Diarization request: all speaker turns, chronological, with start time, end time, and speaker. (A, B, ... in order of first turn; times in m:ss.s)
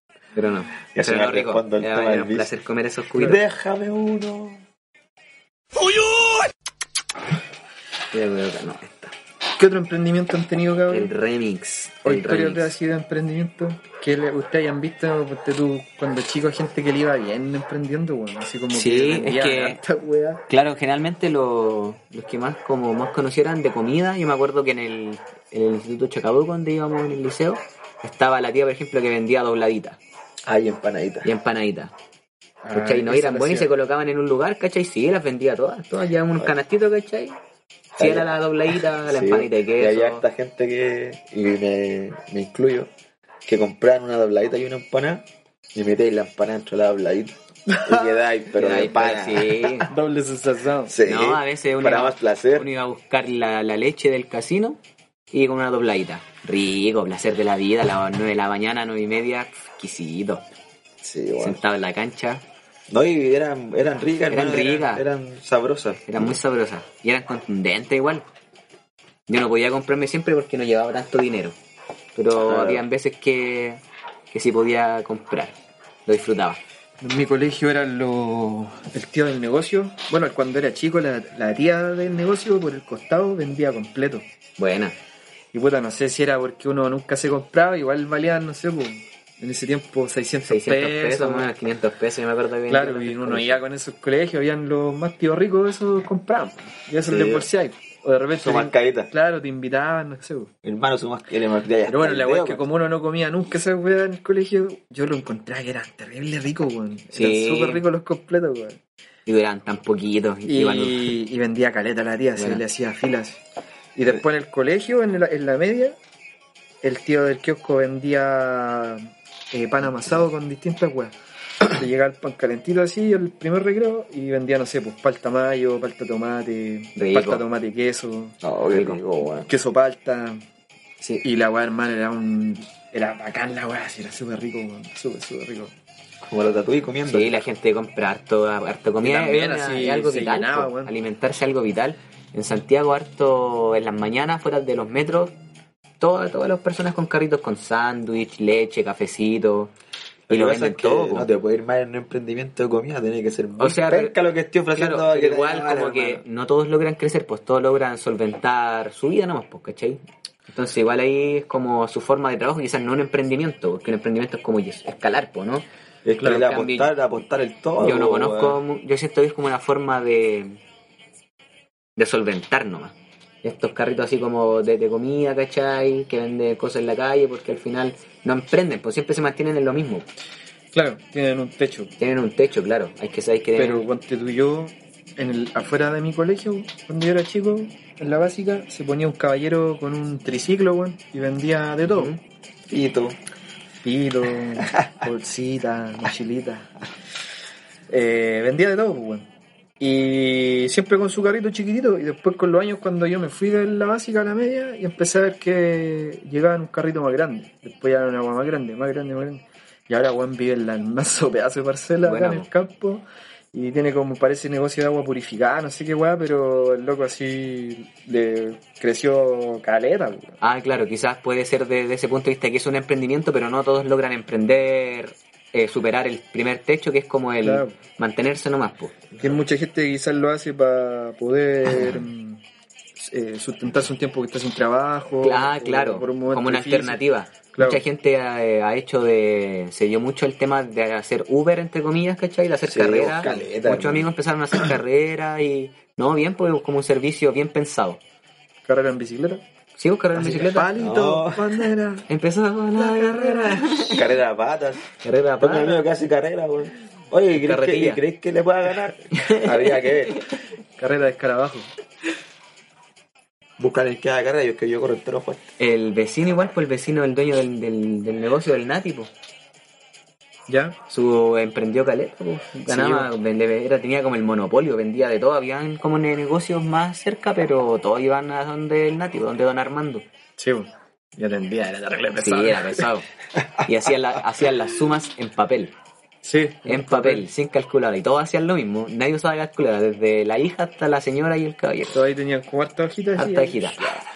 0:00.3-0:03.4 A
0:00.9-0:02.5 B
0:03.2-0:04.6 B
0:08.1-0:09.1 A
0:09.6-0:11.1 C
0:10.9-0:12.7 A
0:12.0-0:20.4 C
0:18.7-0:19.8 A
0:20.5-0:30.0 A
0:30.4-0:31.3 B
0:31.2-0:31.9 A
0:32.6-0:33.7 C
0:32.7-0:37.4 A
0:38.0-0:38.4 B
0:38.0-0:40.2 A
0:39.0-0:42.9 B
0:43.4-0:49.7 B
0:47.7-0:48.0 C
0:48.5-0:49.9 A
0:49.8-0:51.0 C
0:50.9-0:52.7 B
0:51.0-0:54.8 A
0:55.3-1:00.4 A
1:01.0-1:01.6 B
1:01.4-1:02.4 A
1:02.9-1:06.4 B
1:04.3-1:05.0 A
1:06.1-1:08.2 A
1:09.3-1:11.5 A
1:12.2-1:15.5 A
1:12.3-1:12.8 B
1:16.0-1:16.6 A
1:17.0-1:24.2 C
1:24.6-1:25.0 A
1:25.5-1:31.5 C
1:30.5-1:33.6 A
1:32.7-1:40.5 C
1:37.0-1:37.5 B
1:38.4-1:39.1 B
1:40.6-1:42.6 B
1:41.8-1:48.8 C
1:47.1-1:47.8 A
1:49.2-1:51.1 A
1:50.4-1:53.4 C
1:54.0-1:56.0 C
1:56.8-2:01.1 C
2:01.6-2:08.4 C
2:07.0-2:07.4 A
2:08.4-2:09.5 B
2:08.7-2:09.0 A
2:09.5-2:10.4 C
2:11.2-2:15.7 C
2:16.2-2:17.4 B
2:17.0-2:25.3 A
2:19.0-2:20.9 C
2:26.0-2:29.7 A
2:30.3-2:31.3 A
2:30.3-2:36.2 B
2:33.6-2:34.1 A
2:34.7-2:45.6 A
2:46.0-2:48.6 B
2:46.2-2:46.9 A
2:47.8-2:50.6 A
2:52.0-3:00.1 A
3:00.7-3:01.9 C
3:02.0-3:03.8 A
3:03.6-3:12.1 C
3:11.8-3:12.2 A
3:12.7-3:13.2 B
3:13.8-3:16.7 C
3:14.6-3:14.9 B
3:17.9-3:19.3 C
3:19.8-3:40.4 C
3:32.0-3:32.5 A
3:40.4-3:49.2 A
3:47.4-3:47.7 C
3:49.2-3:52.4 C
3:51.7-3:52.0 A
3:53.0-3:57.0 C
3:55.2-4:08.0 A
3:57.6-3:57.8 C
4:02.6-4:04.1 B
4:08.6-4:09.4 C
4:09.8-4:10.7 A
4:10.1-4:12.1 C
4:10.8-4:11.6 B
4:12.1-4:14.0 A
4:12.8-4:14.0 C
4:13.9-4:14.9 B
4:15.0-4:15.8 A
4:15.4-4:20.2 B
4:17.3-4:18.0 A
4:19.1-4:19.9 A
4:20.8-4:21.7 C
4:23.6-4:25.5 B
4:25.6-4:29.1 A
4:30.5-4:30.8 C
4:30.9-4:40.0 A
4:32.7-4:33.1 C
4:40.4-4:42.9 C
4:42.2-4:43.1 A
4:43.6-4:45.7 A
4:46.2-4:47.2 C
4:46.6-4:52.0 A
4:51.9-4:54.0 C
4:53.2-4:53.9 A